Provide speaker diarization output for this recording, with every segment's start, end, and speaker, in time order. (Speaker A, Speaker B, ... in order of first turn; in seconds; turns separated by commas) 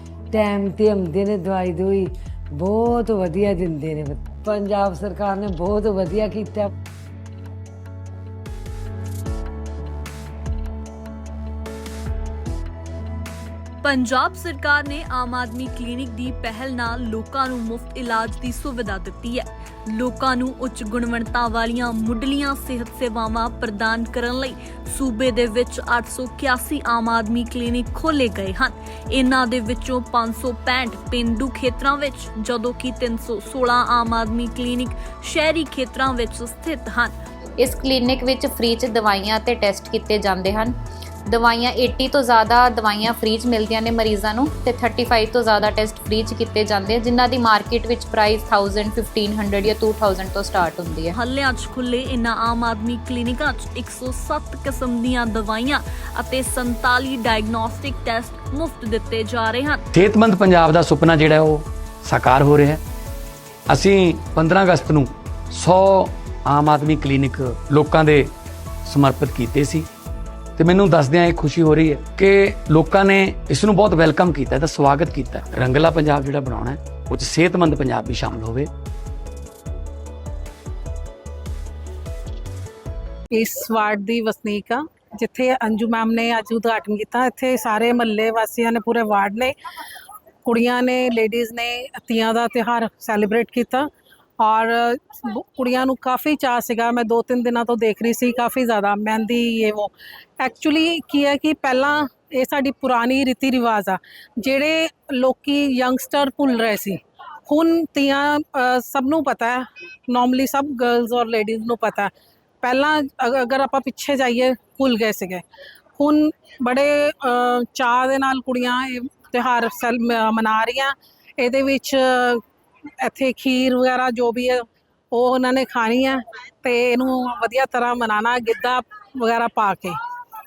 Speaker A: 0.3-6.7, Speaker B: 13.8-37.1, Speaker C: 37.6-40.7, Speaker C: 41.3-51.1, Speaker B: 51.1-59.9, Speaker D: 59.9-62.8, Speaker D: 63.7-68.3, Speaker D: 68.8-69.9, Speaker D: 70.6-78.7, Speaker E: 83.3-89.5, Speaker E: 90.4-93.9, Speaker E: 94.4-112.1, Speaker E: 112.6-115.4, Speaker E: 116.0-122.4, Speaker E: 123.0-129.9